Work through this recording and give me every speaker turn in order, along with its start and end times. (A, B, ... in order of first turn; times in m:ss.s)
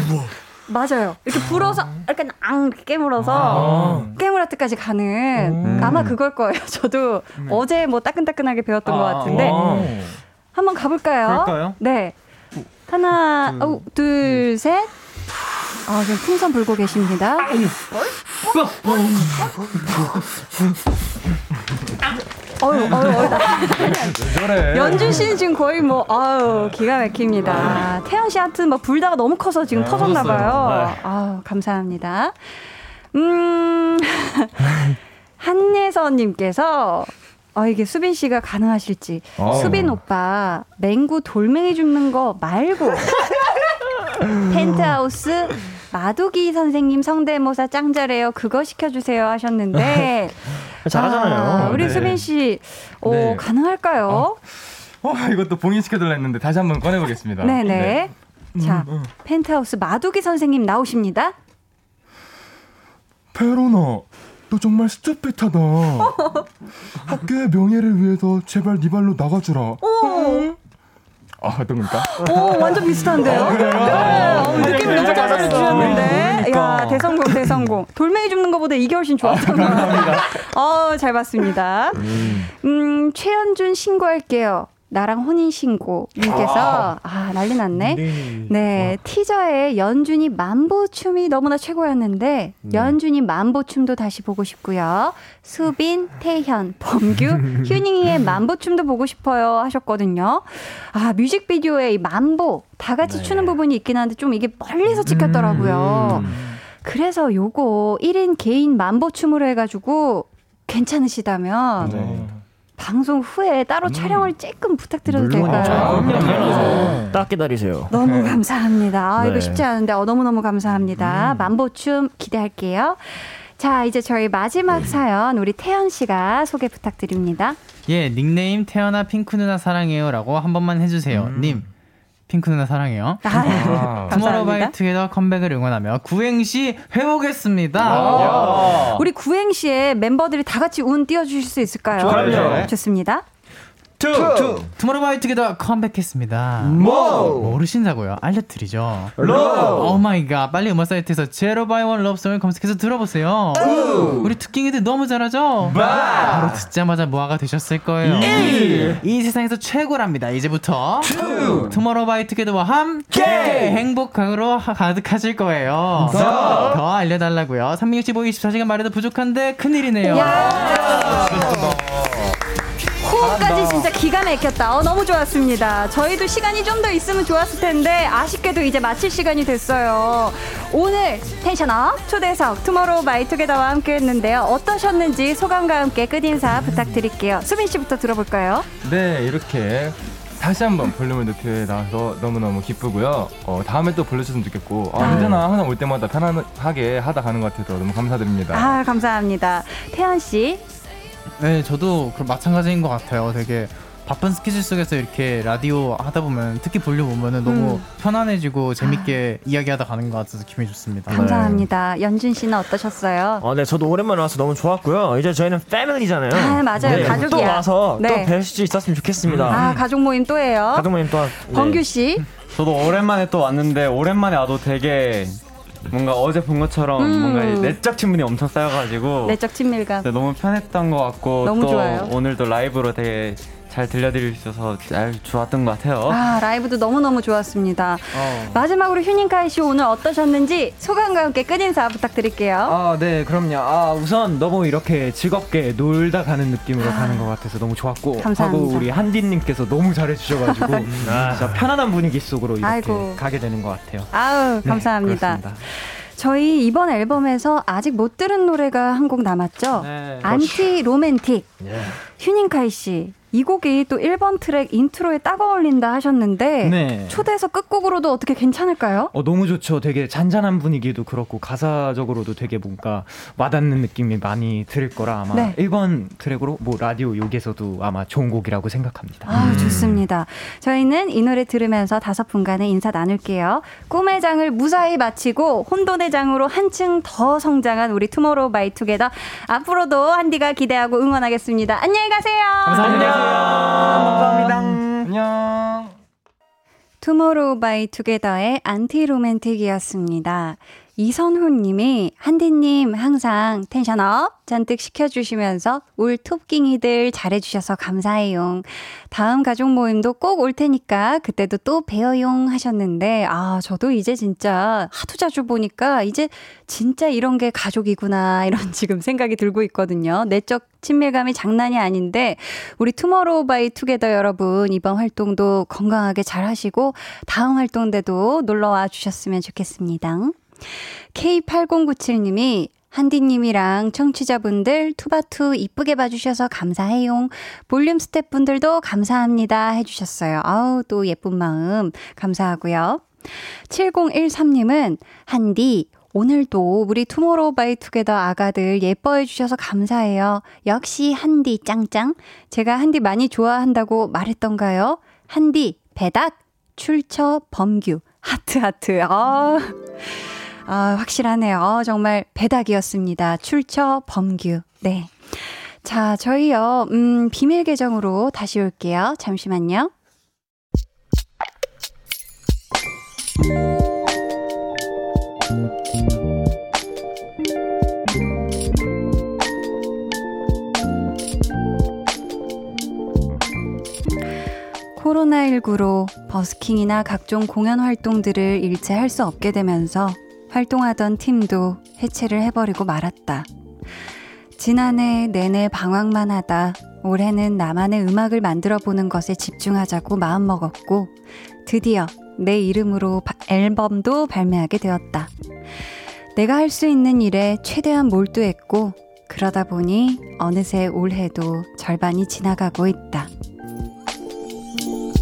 0:00.7-0:09.6 A
0:03.3-0:04.0 B
0:03.4-0:04.1 C
0:03.4-0:04.1 D
0:05.4-0:06.1 D
0:05.7-0:06.0 E
0:05.7-0:06.0 B
0:08.8-0:10.2 B
0:09.3-0:09.9 D
0:09.3-0:09.9 C
0:10.5-0:12.2 A
0:11.2-0:11.8 B
0:12.9-0:14.9 A
0:15.8-0:17.5 A
0:18.4-0:19.5 B
0:22.6-0:32.6 A
0:22.9-0:25.4 D
0:29.7-0:30.5 D
0:29.9-0:30.6 F
0:30.6-0:31.0 C
0:33.1-0:34.7 A
0:35.4-0:43.2 A
0:39.4-0:40.0 C
0:39.4-0:39.9 D
0:44.5-0:54.4 A
0:49.8-0:52.2 C
0:51.5-0:52.3 D
0:53.0-0:53.5 D
0:54.1-0:59.1 D
0:57.4-1:01.4 A
1:03.3-1:06.4 D
1:07.1-1:10.6 D
1:09.8-1:10.5 A
1:11.4-1:16.1 D
1:12.0-1:51.9 A
1:13.3-1:15.4 C
1:13.4-1:16.9 B
1:15.7-1:15.9 E
1:19.3-1:20.3 D
1:22.0-1:22.5 C
1:27.8-1:28.9 C
1:32.6-1:33.0 C
1:43.0-1:43.6 C
1:45.1-1:45.8 B
1:45.3-1:46.6 D
1:46.1-1:46.4 C
1:51.8-1:52.4 D
1:51.8-1:52.3 C
1:52.8-1:57.0 A
1:53.8-1:54.3 D
1:55.1-1:57.9 C
1:55.4-1:57.0 D
1:55.7-1:57.0 B
1:57.9-2:07.6 A
1:57.9-1:58.4 D
1:59.2-1:59.7 C
2:01.0-2:01.4 D
2:07.9-2:11.7 F
2:11.1-2:11.6 D
2:12.3-2:18.6 F
2:13.2-2:14.7 A
2:13.3-2:14.2 D
2:17.9-2:18.9 B
2:17.9-2:18.7 D
2:18.1-2:23.2 A
2:18.2-2:18.7 C
2:18.3-2:18.6 E
2:22.0-2:22.7 B
2:22.0-2:22.7 C
2:24.0-2:24.7 C
2:24.0-2:24.7 B
2:24.8-2:29.1 F
2:26.6-2:27.6 B
2:26.8-2:27.2 C
2:29.2-2:30.0 C
2:29.2-2:30.0 B
2:29.7-2:50.6 F
2:33.6-2:34.3 B
2:35.6-2:36.6 B
2:38.0-2:39.0 B
2:38.1-2:39.0 C
2:41.0-2:41.8 B
2:43.1-2:43.8 B
2:46.1-2:46.6 C
2:46.1-2:46.8 B
2:46.1-2:46.6 D
2:50.1-2:51.4 A
2:50.8-2:52.1 D
2:53.0-3:08.7 A
2:53.4-2:53.8 D
3:08.8-3:18.8 D
3:15.0-3:15.4 A
3:18.5-3:20.6 A
3:21.4-3:31.3 F
3:27.5-3:27.8 A
3:28.8-3:29.2 A
3:31.1-3:33.4 A
3:31.1-3:31.7 C
3:33.4-3:39.7 C
3:36.3-3:38.3 A
3:36.9-3:37.5 B
3:39.5-3:42.2 A
3:40.7-3:41.8 C
3:42.5-3:49.4 E
3:47.0-3:47.8 A
3:49.2-3:50.1 A
3:50.0-3:56.3 E
3:51.4-3:52.1 A
3:56.1-4:02.8 A
3:58.1-3:58.6 B
4:02.6-4:15.6 B
4:06.8-4:07.3 A
4:08.2-4:08.9 A
4:10.5-4:10.9 A
4:11.0-4:11.7 C
4:12.6-4:13.2 A
4:14.1-4:21.5 A
4:19.8-4:20.7 B
4:21.6-4:22.0 C
4:22.0-4:29.1 A
4:26.6-4:27.2 B
4:29.1-4:39.8 B
4:35.3-4:35.6 A
4:39.3-4:53.1 A
4:39.4-4:39.8 D
4:39.4-4:40.0 C
4:52.7-4:55.1 B
4:52.8-4:56.0 D
4:57.0-6:09.9 A
6:25.0-6:33.5 A
6:34.6-6:41.1 A
6:41.7-6:45.3 A
6:46.4-6:53.3 A